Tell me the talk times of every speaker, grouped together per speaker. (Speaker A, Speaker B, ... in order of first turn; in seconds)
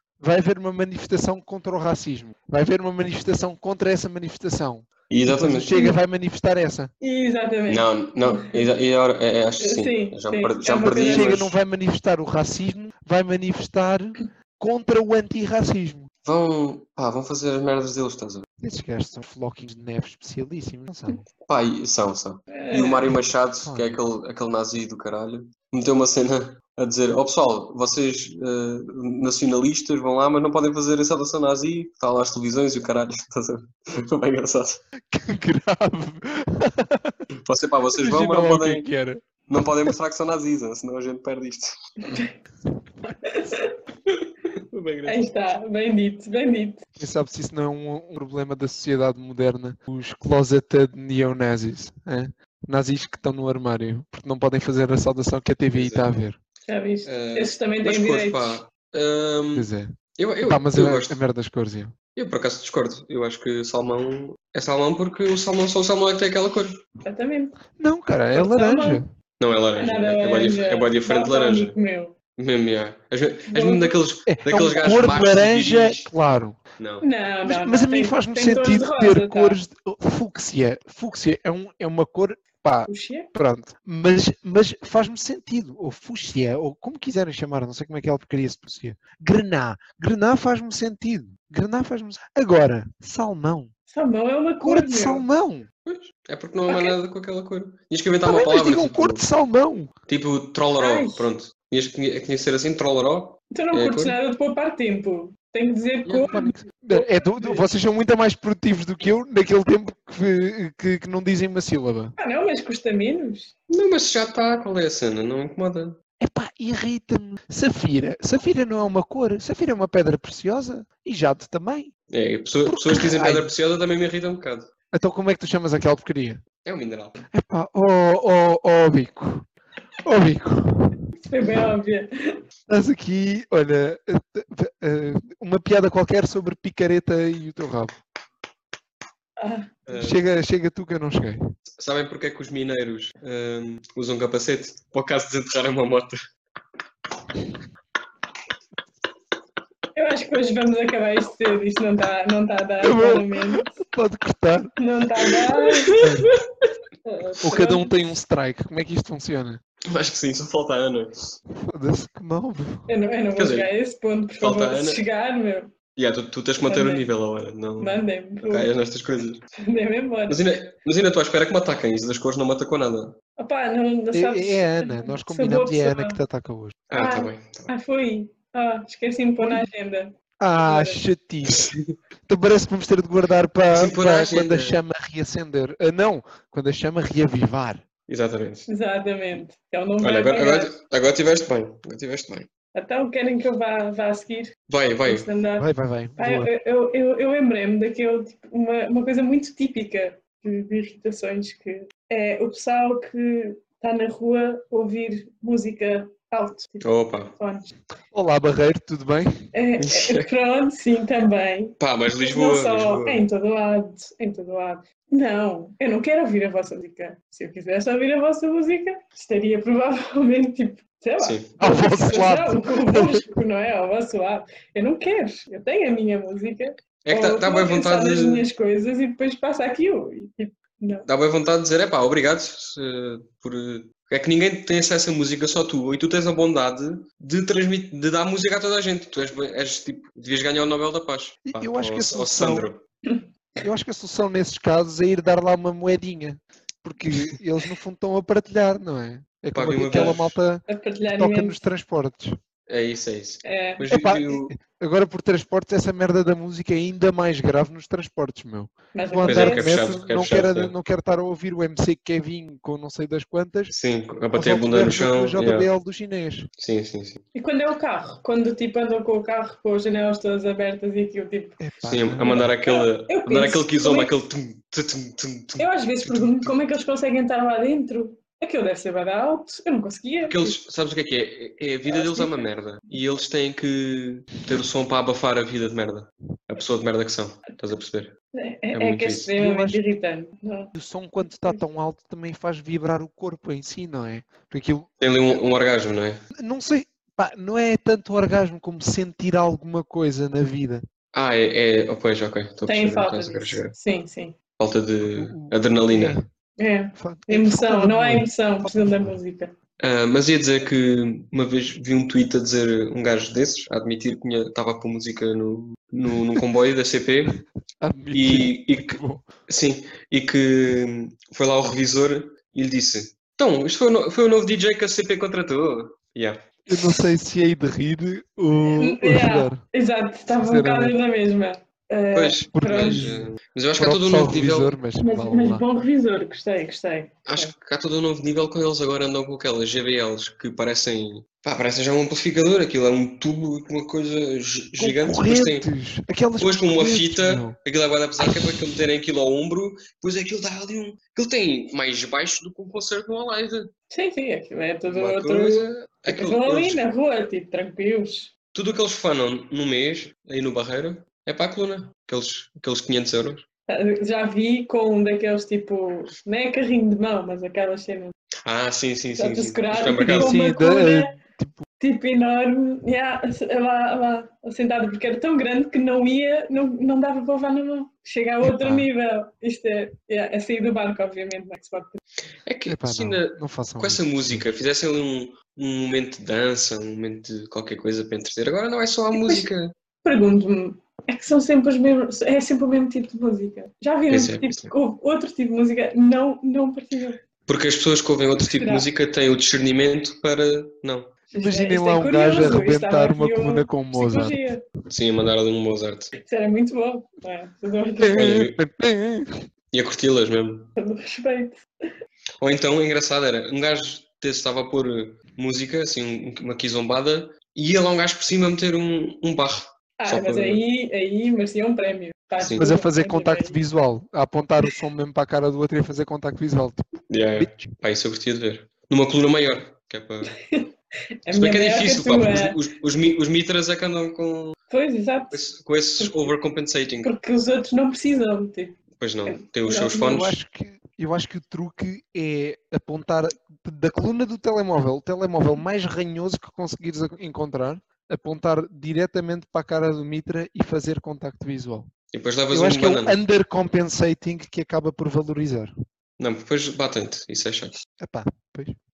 Speaker A: 0.2-6.9, 11.0-16.1, 18.6-21.2, 23.6-24.0, 35.1-37.2, 38.0-39.2, 47.0-56.4, 59.5-59.9, 60.4-61.9, 67.8-69.1, 74.3-76.6, 77.4-93.7, 94.6-95.7, 98.2-99.9, 106.3-112.1, 116.2-121.9, 122.7-123.5, 124.9-126.4, 127.3-129.4, 130.0-131.0, 132.7-138.0, 139.9-141.5, 152.8-154.7, 156.0-156.3, 157.4-159.6, 161.6-162.9, 174.1-176.8, 179.4-179.7, 180.4-181.7, 182.2-187.8, 195.6-196.5, 208.1-209.3, 221.6-223.2, 241.4-242.7, 243.6-252.4, 253.9-263.7, 264.3-266.5, 271.6-272.4, 289.3-289.8, 290.7-294.9, 296.4-300.8, 305.0-306.3, 307.0-309.2, 317.8-319.2, 326.7-329.6, 330.4-331.0, 332.5-335.6, 344.8-347.6, 348.2-348.8, 370.0-371.6, 378.4-378.9, 382.7-384.5, 401.4-404.4, 408.0-409.3, 422.6-426.9, 427.4-427.7, 440.0-451.9, 452.5-455.7, 458.0-458.7
Speaker B: 5.1-5.8, 7.7-11.5, 16.2-18.4, 21.5-34.8, 37.4-38.8, 39.5-42.2, 44.7-45.3, 55.7-56.1, 57.0-61.2, 62.1-66.8, 69.4-71.7, 72.4-76.1, 76.8-77.0, 95.8-99.2, 100.1-104.2, 106.0-106.4, 113.7-116.0, 122.1-124.7, 126.6-127.2, 139.8-140.2, 141.8-146.2, 159.9-161.4, 163.3-163.7, 164.4-165.0, 165.9-169.4, 170.3-173.2, 176.9-177.7, 181.5-181.9, 183.7-184.8, 188.1-188.7, 190.0-192.5, 194.7-195.3, 206.8-207.3, 209.8-210.3, 211.8-213.2, 221.2-221.5, 227.0-228.5, 231.1-242.8, 249.5-250.4, 252.7-254.5, 259.2-260.7, 263.7-265.7, 266.6-267.2, 271.8-276.5, 280.2-288.1, 288.7-289.3, 295.0-296.2, 301.1-303.7, 304.6-306.2, 309.8-317.4, 318.1-326.5, 332.1-334.8, 337.2-345.7, 346.4-353.7, 354.9-356.8, 358.5-363.4, 368.4-370.4, 382.4-389.7, 394.1-394.7, 397.5-401.1, 404.9-406.1, 408.1-408.6, 409.7-410.7, 412.4-420.6, 422.4-422.7, 427.1-430.3, 431.3-434.6, 435.3-437.1, 439.0-440.4, 452.1-453.2, 456.2-457.8
Speaker C: 7.0-8.7, 9.6-11.3, 22.5-23.1, 43.2-43.8, 45.0-46.9, 56.6-58.6, 67.0-67.6, 68.3-69.0, 69.8-72.1, 73.5-74.0, 77.0-79.6, 82.9-83.3, 93.9-95.2, 96.7-97.0, 100.8-101.3, 103.5-107.6, 112.2-113.5, 131.2-132.4, 139.4-139.7, 149.9-153.8, 154.8-157.9, 162.9-165.7, 166.6-167.1, 167.8-168.7, 169.6-170.4, 173.4-176.2, 176.9-181.0, 188.7-190.7, 192.7-194.5, 195.0-195.7, 196.2-206.8, 207.4-207.7, 209.5-231.1, 249.9-250.2, 250.7-251.6, 253.4-253.8, 258.9-259.7, 267.3-271.6, 272.2-274.1, 275.6-280.6, 281.9-282.5, 288.3-290.7, 302.7-304.4, 306.6-309.5, 328.7-333.1, 335.0-337.5, 353.9-358.3, 363.7-368.1, 369.2-371.1, 371.8-382.0, 389.1-389.5, 390.0-397.2, 398.4-398.9, 401.3-404.6, 406.2-408.2, 410.8-411.6, 420.0-423.6, 430.3-430.7, 431.2-432.6, 434.7-435.4, 436.0-436.3, 437.0-440.2